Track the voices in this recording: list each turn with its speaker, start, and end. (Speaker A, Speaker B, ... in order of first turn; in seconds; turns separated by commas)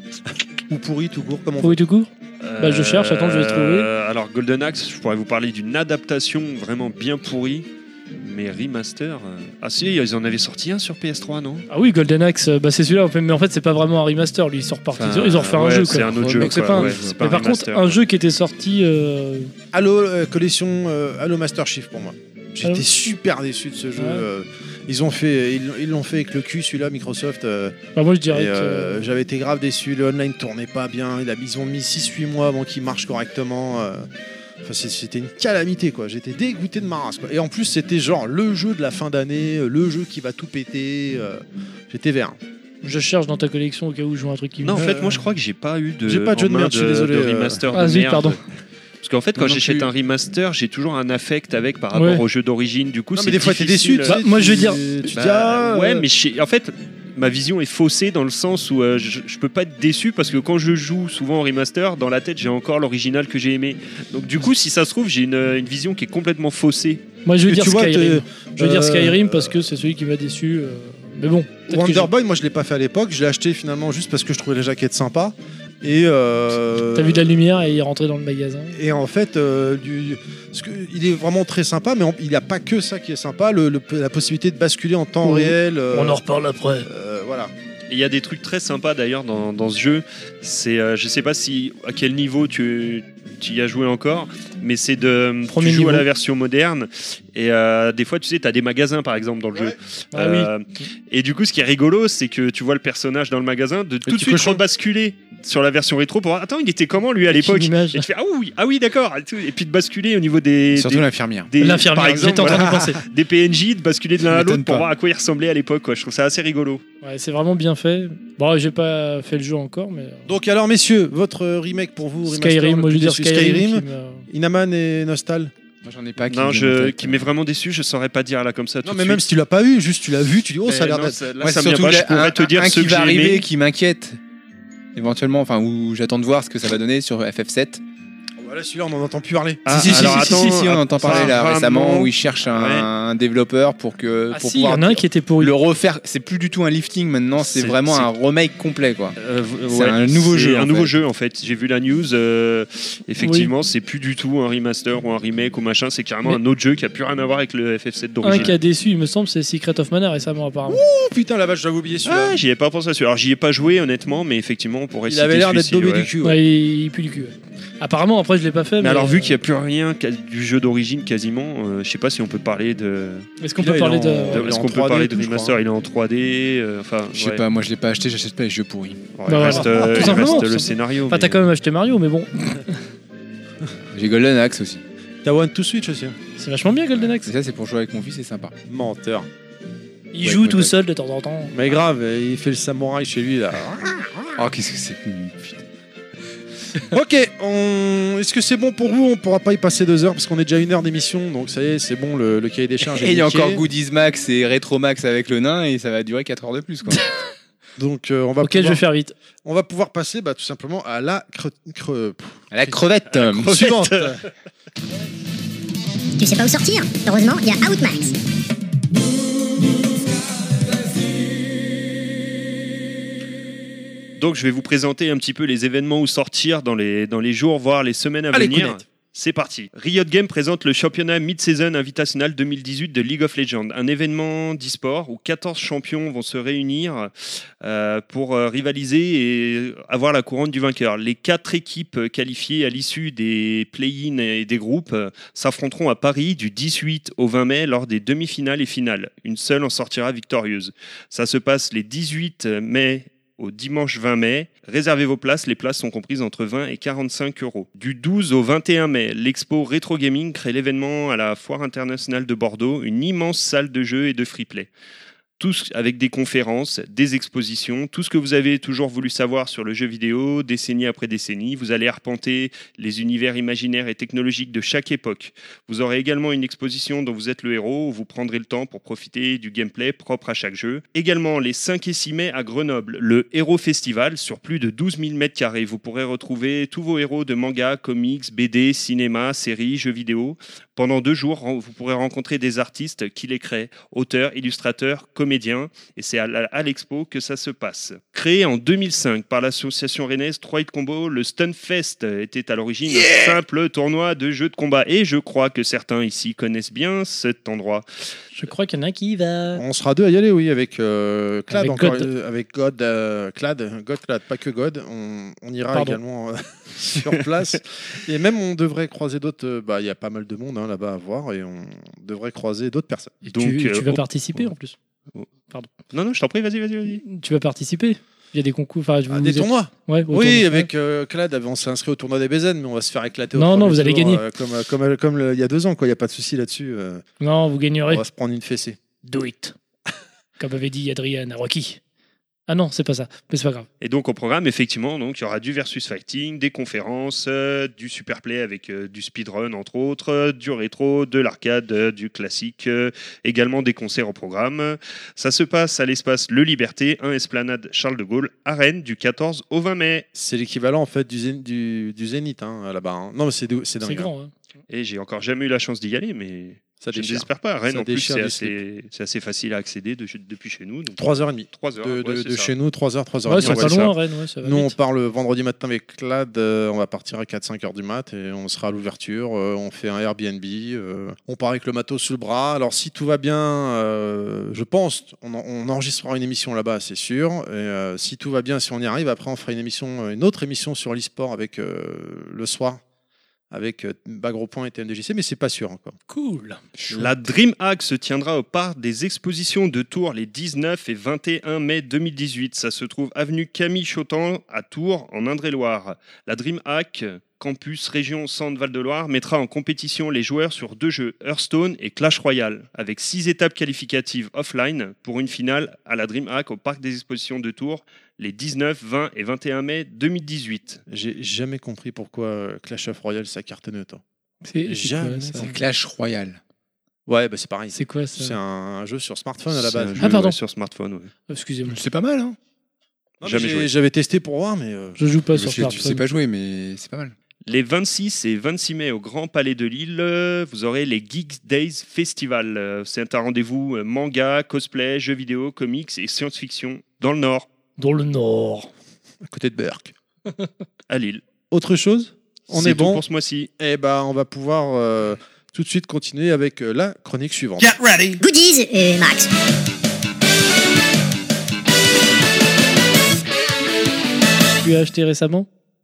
Speaker A: 0.7-1.8, Speaker B: 1.6-3.9, Speaker C: 2.4-7.7, Speaker C: 8.2-11.7, Speaker B: 11.7-19.5, Speaker C: 14.9-18.0, Speaker D: 15.8-17.2, Speaker A: 19.7-27.7, Speaker B: 22.6-23.1, Speaker B: 24.0-24.2, Speaker B: 27.9-29.0, Speaker A: 28.3-34.1, Speaker A: 34.6-42.4, Speaker B: 42.8-44.8, Speaker C: 44.6-48.4, Speaker A: 44.7-45.2, Speaker A: 46.0-47.6, Speaker B: 47.7-48.4, Speaker C: 49.0-54.2, Speaker D: 49.4-49.9, Speaker B: 51.9-52.2, Speaker A: 53.1-56.0, Speaker B: 54.0-54.8, Speaker C: 55.1-67.0, Speaker B: 67.2-72.1, Speaker A: 67.5-69.6, Speaker A: 71.7-77.3, Speaker B: 76.9-78.8, Speaker A: 78.7-86.2, Speaker B: 85.2-86.9, Speaker A: 86.8-87.5, Speaker C: 87.9-116.8, Speaker B: 95.5-96.0, Speaker B: 100.1-100.5, Speaker A: 104.0-104.6, Speaker B: 107.3-108.0, Speaker D: 110.7-111.5, Speaker B: 111.6-113.0, Speaker A: 112.3-112.8, Speaker D: 114.3-114.9, Speaker B: 117.0-120.3, Speaker A: 120.3-125.5, Speaker B: 122.2-124.3, Speaker D: 125.8-127.3, Speaker C: 126.3-129.2, Speaker A: 128.8-131.2, Speaker C: 130.7-133.4, Speaker D: 131.4-134.2, Speaker D: 134.9-137.8, Speaker A: 138.4-140.4, Speaker C: 139.7-142.9, Speaker D: 139.7-149.2, Speaker A: 141.0-141.4, Speaker B: 144.3-145.5, Speaker C: 147.4-148.1, Speaker C: 149.2-158.6, Speaker D: 149.7-150.9, Speaker B: 153.2-153.5, Speaker B: 158.2-160.8, Speaker A: 160.7-162.4, Speaker C: 162.0-166.1, Speaker A: 165.1-166.4, Speaker B: 166.2-169.3, Speaker C: 168.8-173.3, Speaker B: 173.4-174.5, Speaker A: 173.6-175.6, Speaker C: 174.3-177.4, Speaker D: 177.1-179.0, Speaker C: 179.1-181.4, Speaker B: 179.3-182.8, Speaker A: 179.3-180.4, Speaker D: 183.9-184.8, Speaker A: 185.2-186.2, Speaker B: 186.4-187.3, Speaker D: 187.2-188.5, Speaker A: 188.7-189.3, Speaker B: 190.1-191.5, Speaker D: 190.2-190.7, Speaker A: 191.5-194.3, Speaker D: 194.3-195.6, Speaker A: 196.8-203.6, Speaker D: 202.8-207.0, Speaker A: 207.8-208.8, Speaker B: 208.4-209.1, Speaker A: 209.4-214.2, Speaker D: 212.5-213.6, Speaker C: 213.5-213.9, Speaker E: 216.2-218.2, Speaker C: 224.2-264.7, Speaker A: 228.3-228.8, Speaker C: 265.4-307.8, Speaker B: 308.3-309.6, Speaker A: 309.5-323.2, Speaker B: 311.5-312.1, Speaker B: 315.7-316.0, Speaker B: 323.2-324.8, Speaker C: 323.3-324.5, Speaker C: 325.9-327.0, Speaker B: 327.0-330.7, Speaker A: 329.1-337.0, Speaker B: 333.4-334.2, Speaker B: 337.2-338.0, Speaker A: 337.9-338.8, Speaker B: 339.0-339.5, Speaker B: 340.4-341.8, Speaker B: 342.5-343.7, Speaker C: 343.8-360.1, Speaker A: 360.1-364.1, Speaker B: 363.8-364.3, Speaker C: 364.7-372.5, Speaker A: 366.8-368.6, Speaker A: 371.0-373.9, Speaker B: 373.2-374.7, Speaker C: 373.4-373.9, Speaker A: 374.4-392.8, Speaker A: 393.5-395.9, Speaker B: 396.1-396.6, Speaker D: 396.8-397.1, Speaker C: 396.9-420.8, Speaker A: 420.9-424.0, Speaker B: 424.4-425.6, Speaker A: 424.7-425.5, Speaker D: 425.4-426.4, Speaker A: 427.1-430.1, Speaker B: 427.7-428.4, Speaker C: 429.5-431.1, Speaker B: 430.0-430.4, Speaker B: 431.3-431.8, Speaker D: 431.7-432.4, Speaker A: 433.2-435.0, Speaker C: 433.2-433.7, Speaker B: 435.0-436.0, Speaker D: 435.3-437.1, Speaker C: 437.5-447.5, Speaker B: 447.8-448.7, Speaker A: 449.2-449.9, Speaker C: 450.9-451.2, Speaker A: 451.5-453.0, Speaker C: 452.5-453.5, Speaker A: 453.6-458.2, Speaker E: 458.2-459.3, Speaker B: 464.6-465.5